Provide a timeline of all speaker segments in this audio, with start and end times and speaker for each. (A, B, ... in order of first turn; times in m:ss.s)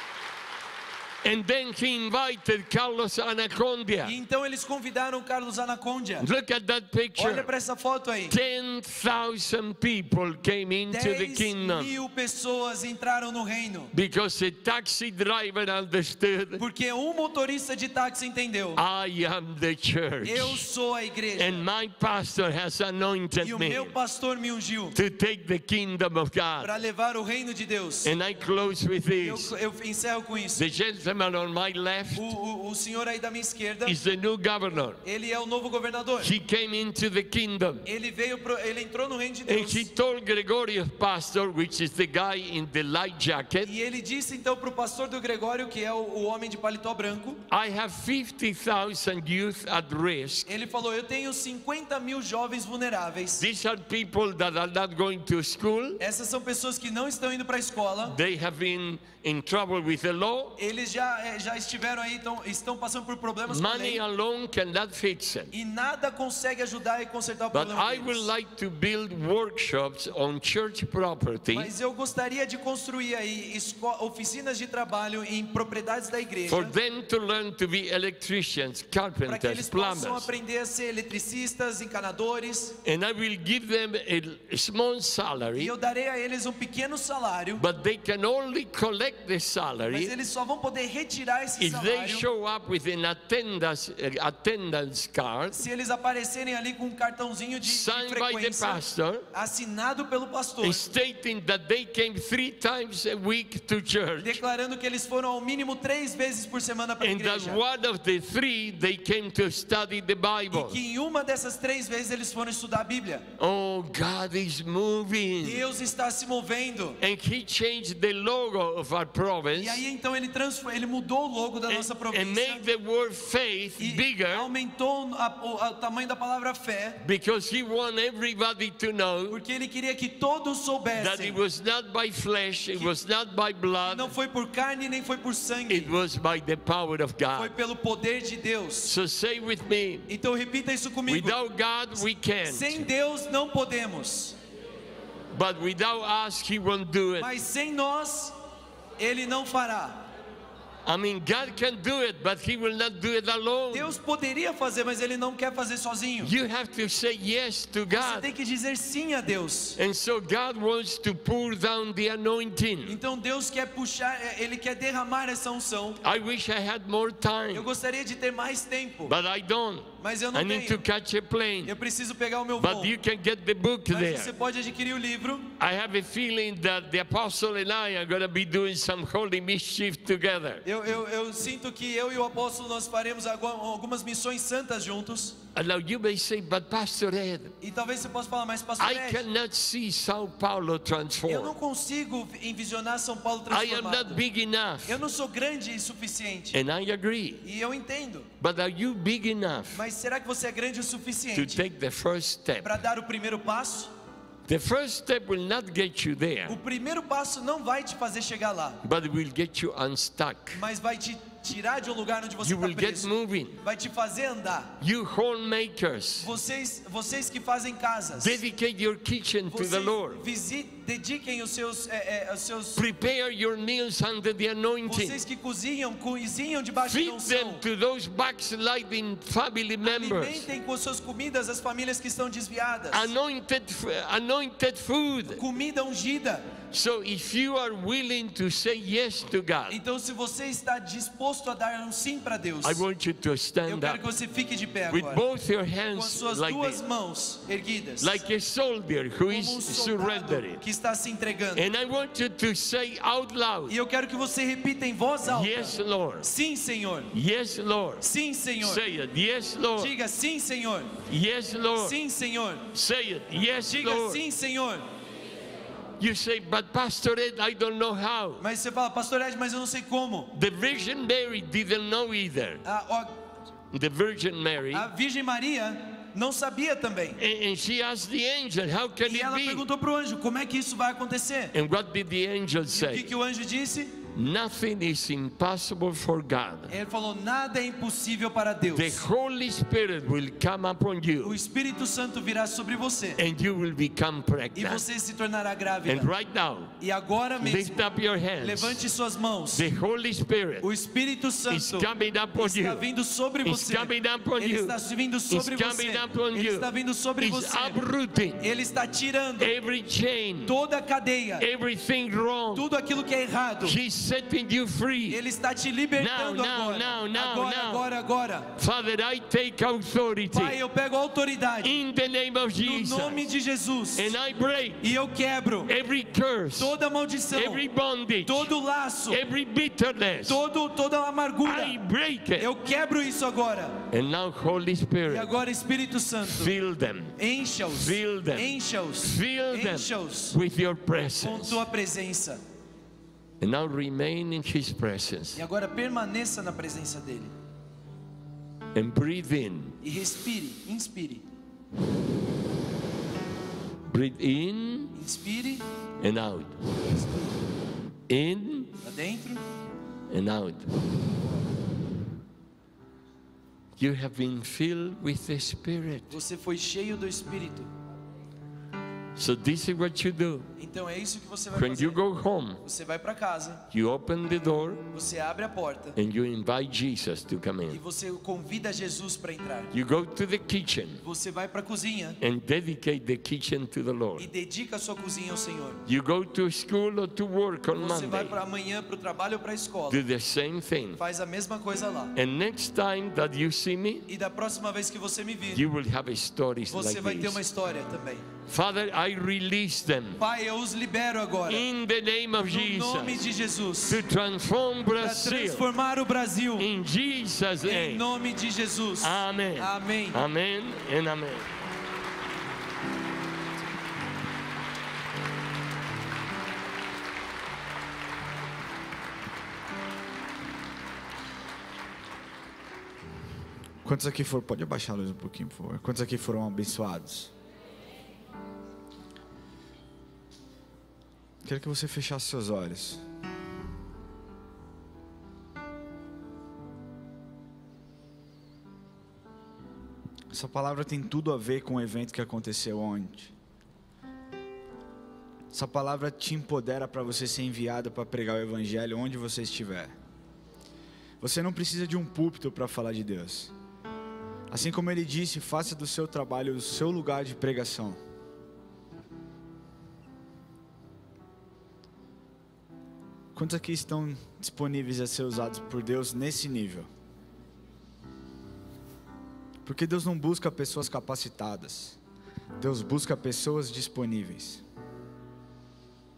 0:01.2-0:04.2 A
0:04.0-0:06.3 B
0:06.2-0:07.5 A
0:07.2-0:08.4 B
0:08.3-0:12.0 A
0:10.9-0:13.9 B
0:13.9-0:16.6 A
0:16.6-0:18.8 B
0:18.8-0:20.6 A
0:20.2-0:21.6 B
0:21.4-0:23.9 A
0:23.4-0:25.0 B
0:24.9-0:26.8 A
0:26.6-0:28.1 B
0:28.0-0:29.5 A
0:29.2-0:30.6 B
0:30.6-0:32.3 A
0:32.1-0:34.0 B
0:33.8-0:35.0 A
0:35.0-0:36.3 B
0:36.2-0:37.9 A
0:37.8-0:39.9 B
0:39.5-0:43.7 A
0:43.6-0:47.4 B
0:47.5-0:50.5 A
0:50.5-0:53.4 B
0:53.4-0:56.0 A
0:56.0-0:58.2 B
0:58.1-1:00.6 A
1:00.6-1:04.0 B
1:03.5-1:05.5 A
1:05.5-1:08.3 B
1:07.5-1:11.7 A
1:11.5-1:16.7 B
1:16.5-1:20.3 A
1:19.3-1:22.8 B
1:22.8-1:25.7 A
1:25.6-1:27.6 B
1:27.6-1:30.1 A
1:29.9-1:32.2 B
1:31.6-1:35.6 A
1:35.5-1:40.8 B
1:37.6-1:39.3 A
1:40.6-1:44.4 A
1:44.2-1:47.6 B
1:47.0-1:50.8 A
1:50.5-1:53.3 B
1:53.4-1:55.6 A
1:55.4-1:57.0 B
1:57.0-1:59.8 A
1:59.6-2:02.6 B
2:01.7-2:04.5 A
2:03.8-2:07.0 B
2:07.0-2:09.4 A
2:09.3-2:11.4 B
2:10.9-2:14.1 A
2:13.8-2:15.9 B
2:15.7-2:17.5 A
2:17.4-2:18.9 B
2:18.8-2:20.1 A
2:20.1-2:21.4 B
2:21.1-2:22.9 A
2:22.5-2:24.4 B
2:25.3-2:27.3 A
2:27.2-2:28.3 B
2:29.0-2:30.1 B
2:30.8-2:34.0 A
2:33.7-2:36.3 B
2:36.2-2:38.3 A
2:37.9-2:39.8 B
2:39.8-2:43.0 A
2:42.9-2:46.0 B
2:46.0-2:47.7 A
2:47.5-2:49.1 B
2:49.0-2:51.7 A
2:50.0-2:50.8 B
2:51.6-2:52.9 B
2:52.6-2:54.3 A
2:53.9-2:55.5 B
2:55.6-3:00.6 A
3:00.6-3:05.4 B
3:05.6-3:07.6 A
3:07.6-3:09.2 B
3:08.8-3:11.6 A
3:11.3-3:14.2 B
3:13.5-3:15.0 A
3:14.9-3:16.6 B
3:16.5-3:17.4 A
3:17.4-3:18.3 B
3:18.4-3:19.8 A
3:19.7-3:21.6 B
3:21.3-3:22.8 A
3:22.6-3:23.9 B
3:24.5-3:26.6 A
3:26.5-3:28.8 B
3:28.8-3:30.6 A
3:30.5-3:34.7 B
3:32.4-3:33.6 A
3:34.8-3:36.3 A
3:36.2-3:38.4 B
3:38.2-3:40.2 A
3:39.5-3:42.8 B
3:42.8-3:45.2 A
3:44.9-3:47.6 B
3:46.8-3:50.5 A
3:49.8-3:53.1 B
3:52.9-3:55.4 A
3:55.3-3:56.5 B
3:56.7-3:59.8 A
3:59.7-4:02.8 B
4:02.6-4:04.0 A
4:03.7-4:05.2 B
4:04.9-4:06.8 A
4:05.9-4:08.2 B
4:08.0-4:10.6 A
4:09.3-4:11.7 B
4:11.6-4:13.8 A
4:13.7-4:17.1 B
4:15.3-4:16.3 A
4:17.1-4:18.0 A
4:18.0-4:18.8 B
4:18.6-4:19.9 A
4:19.8-4:21.0 B
4:21.1-4:22.0 A
4:21.8-4:22.7 B
4:22.7-4:24.2 A
4:23.7-4:24.8 B
4:26.0-4:28.4 A
4:28.4-4:30.3 B
4:30.3-4:32.6 A
4:32.6-4:33.1 B
4:33.7-4:34.9 A
4:34.7-4:37.2 B
4:37.2-4:39.7 A
4:39.0-4:41.5 B
4:41.5-4:43.1 A
4:42.7-4:44.0 B
4:44.1-4:46.7 A
4:46.7-4:49.0 B
4:48.7-4:51.4 A
4:51.2-4:53.2 B
4:53.2-4:54.8 A
4:54.6-4:56.1 B
4:55.9-4:56.7 A
4:56.8-4:57.8 B
4:57.4-4:58.8 A
4:58.4-4:59.6 B
4:59.5-5:00.7 A
5:00.6-5:07.8 B
5:01.5-5:02.9 A
5:03.4-5:04.8 A
5:05.3-5:08.4 A
5:08.4-5:09.5 B
5:09.4-5:10.6 A
5:10.4-5:11.5 B
5:11.4-5:12.7 A
5:12.5-5:13.8 B
5:13.6-5:15.2 A
5:15.1-5:18.5 B
5:16.0-5:17.9 A
5:18.5-5:20.6 A
5:20.3-5:21.8 B
5:21.6-5:23.3 A
5:22.6-5:24.1 B
5:24.0-5:24.9 A
5:24.8-5:25.7 B
5:25.7-5:26.7 A
5:26.6-5:27.6 B
5:27.3-5:28.5 A
5:28.2-5:29.2 B
5:29.1-5:30.4 A
5:30.3-5:31.8 B
5:31.4-5:32.5 A
5:32.4-5:33.8 B
5:33.9-5:35.3 A
5:35.1-5:36.5 B
5:36.2-5:37.2 A
5:37.2-5:40.4 B
5:37.7-5:41.6 A
5:41.2-5:42.4 B
5:43.4-5:45.4 A
5:45.4-5:47.3 B
5:48.8-5:49.8 A
5:49.8-5:51.2 B
5:53.9-5:55.0 A
5:55.0-5:55.6 B
5:56.0-5:56.8 A
5:56.9-5:57.3 B
5:58.1-5:58.7 A
5:58.8-5:59.4 B
6:00.1-6:00.9 A
6:03.8-6:06.2 A
6:06.1-6:07.7 B
6:09.2-6:10.5 A
6:10.6-6:12.0 B
6:11.5-6:12.6 A
6:12.6-6:13.6 B
6:13.7-6:14.8 A
6:14.9-6:16.0 B
6:16.0-6:17.8 A
6:17.7-6:19.7 B
6:19.7-6:21.0 A
6:21.0-6:22.2 B
6:22.2-6:24.3 A
6:24.2-6:25.8 B
6:25.9-6:28.4 A
6:27.7-6:30.0 B
6:29.9-6:31.0 A
6:31.0-6:32.1 B
6:32.2-6:34.1 A
6:34.1-6:35.6 B
6:35.5-6:37.4 A
6:36.7-6:38.2 B
6:38.5-6:40.2 A
6:40.2-6:41.7 B
6:41.5-6:43.2 A
6:42.5-6:44.0 B
6:43.9-6:45.7 A
6:45.0-6:46.7 B
6:46.6-6:48.1 A
6:47.6-6:50.2 B
6:49.0-6:51.5 A
7:03.8-7:07.3 C
7:11.4-7:13.0 C
7:20.3-7:23.3 C
7:25.5-7:30.0 C
7:31.2-7:33.5 C
7:34.5-7:38.0 C
7:43.3-7:46.9 C
7:49.6-7:52.0 C
7:52.6-7:54.6 C